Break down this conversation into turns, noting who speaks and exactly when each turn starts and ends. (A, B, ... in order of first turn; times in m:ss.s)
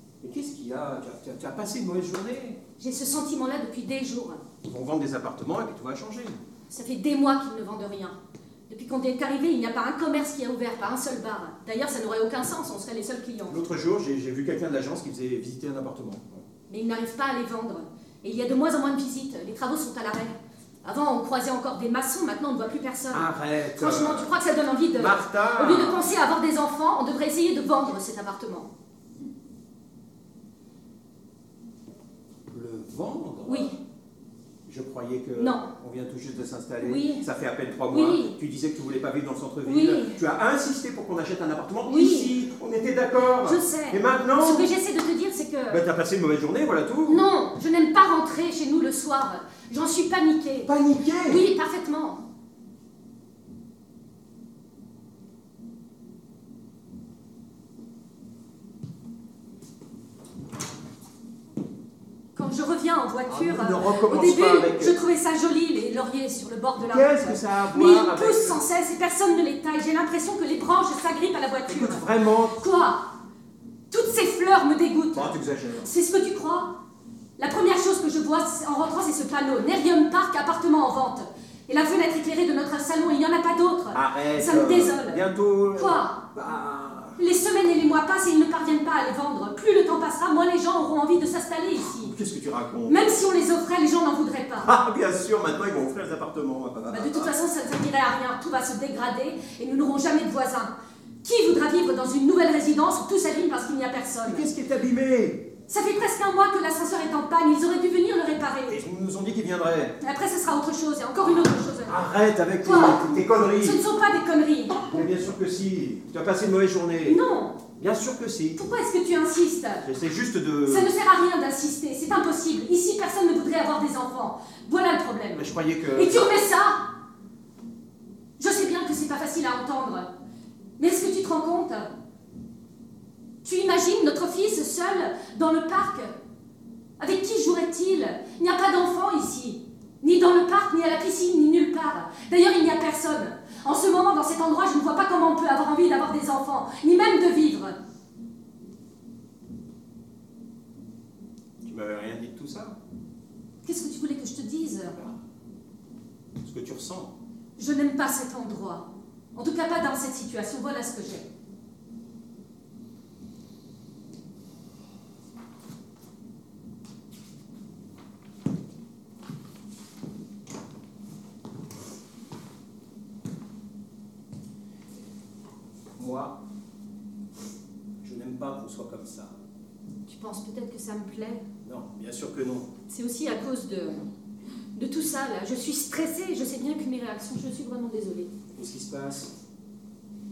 0:00.2-0:02.6 A
0:02.8-0:04.4 B
0:04.6-0:06.4 A
0:06.7-0:08.2 B
0:08.7-0:13.6 B
0:13.5-0:16.4 A
0:16.7-0:28.7 B
0:23.1-0:24.4 A
0:24.9-0:26.1 A
0:32.5-0:33.7 A
0:33.4-0:33.8 B
0:34.6-0:44.7 A
0:35.4-0:35.7 B
0:36.8-0:37.2 B
0:37.9-0:38.4 B
0:39.6-0:40.2 B
0:41.8-0:42.3 B
0:43.4-0:45.8 B
0:45.7-0:47.2 A
0:47.1-0:50.7 B
0:50.6-0:51.4 A
0:51.2-0:52.2 B
1:02.3-1:13.1 B
1:03.3-1:05.0 A
1:06.9-1:08.6 A
1:11.7-1:12.6 A
1:13.9-1:15.3 B
1:15.1-1:15.9 A
1:15.8-1:16.7 B
1:17.4-1:26.2 B
1:23.9-1:27.2 A
1:27.2-1:32.2 B
1:31.9-1:33.2 A
1:32.9-1:34.7 B
1:34.6-1:37.3 A
1:36.9-1:40.7 B
1:41.2-1:44.4 B
1:44.2-1:45.5 A
1:45.7-1:48.8 B
1:48.7-1:50.0 A
1:50.0-1:52.0 B
1:51.2-1:53.8 A
1:52.6-1:54.9 B
1:54.8-1:57.2 A
1:57.0-1:57.6 B
1:57.8-1:58.6 A
1:58.6-1:59.9 B
1:59.8-2:00.9 A
2:00.6-2:06.8 B
2:05.4-2:06.4 A
2:08.4-2:10.1 B
2:10.8-2:11.9 B
2:13.4-2:16.1 B
2:17.0-2:27.8 B
2:31.6-2:32.8 A
2:33.6-2:35.0 B
2:36.4-2:37.1 A
2:37.6-2:41.3 B
2:56.0-2:56.4 A
2:58.0-2:59.4 A
3:00.1-3:01.4 B
3:01.6-3:02.7 A
3:02.9-3:04.0 B
3:04.7-3:08.3 B
3:08.5-3:09.3 A